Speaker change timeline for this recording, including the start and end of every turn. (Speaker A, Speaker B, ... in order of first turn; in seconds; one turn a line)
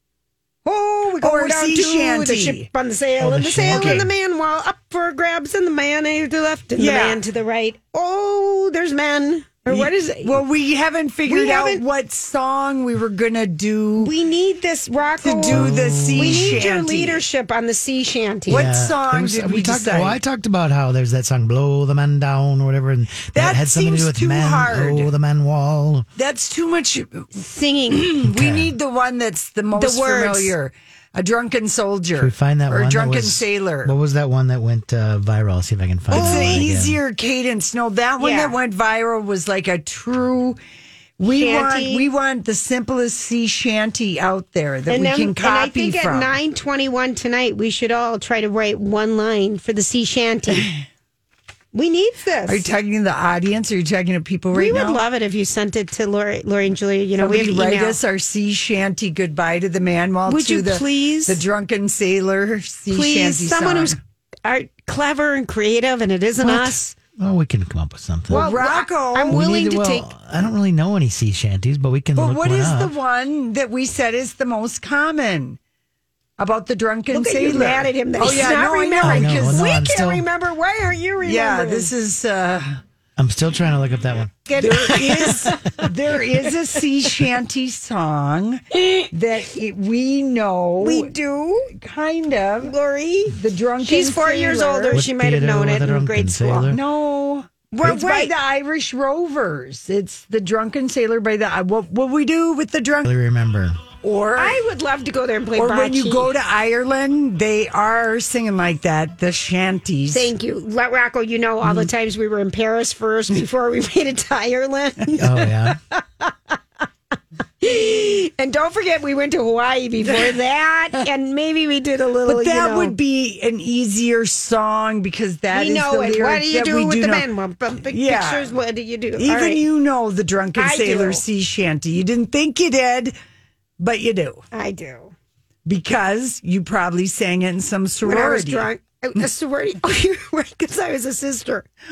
Speaker A: 0.7-10.4
Speaker B: 1.1-2.7
Speaker C: 3.2-4.1
Speaker B: 3.7-4.0
Speaker B: 6.8-7.2
Speaker B: 9.7-14.1
Speaker A: 11.3-11.8
Speaker A: 14.0-18.7
Speaker B: 15.2-17.2
Speaker C: 15.5-16.7
Speaker B: 18.5-20.2
Speaker C: 18.5-26.1
Speaker B: 23.3-25.1
Speaker B: 26.2-27.3
Speaker A: 27.4-28.2
Speaker B: 27.9-33.9
Speaker C: 28.2-28.7
Speaker A: 29.8-30.6
Speaker C: 32.2-37.0
Speaker B: 36.1-40.6
Speaker A: 36.1-36.6
Speaker A: 38.2-38.6
Speaker B: 41.2-46.4
Speaker A: 41.3-42.1
Speaker A: 44.9-50.7
Speaker B: 50.6-50.8
Speaker A: 51.7-52.7
Speaker B: 52.5-55.0
Speaker A: 54.5-58.0
Speaker B: 57.2-64.0
Speaker A: 60.3-61.4
Speaker A: 62.9-67.0
Speaker C: 66.4-68.4
Speaker B: 68.3-69.4
Speaker A: 68.3-70.1
Speaker C: 69.3-72.9
Speaker B: 72.2-75.6
Speaker B: 76.4-79.8
Speaker A: 77.1-81.9
Speaker C: 79.0-80.3
Speaker B: 81.2-82.8
Speaker C: 83.2-84.3
Speaker A: 84.5-85.8
Speaker B: 84.6-91.1
Speaker A: 90.8-91.7
Speaker B: 91.7-92.7
Speaker A: 92.6-96.7
Speaker B: 93.3-95.0
Speaker C: 94.9-96.8
Speaker B: 96.5-103.0
Speaker A: 97.7-98.3
Speaker C: 103.0-103.8
Speaker B: 104.0-104.6
Speaker A: 104.4-106.3
Speaker B: 105.6-110.3
Speaker A: 110.1-116.3
Speaker C: 115.2-115.8
Speaker A: 117.6-123.0
Speaker B: 122.3-127.3
Speaker A: 125.5-129.6
Speaker B: 127.9-128.5
Speaker B: 129.2-133.2
Speaker A: 130.6-131.2
Speaker B: 133.8-134.4
Speaker A: 134.5-135.1
Speaker B: 135.7-138.7
Speaker A: 138.0-141.7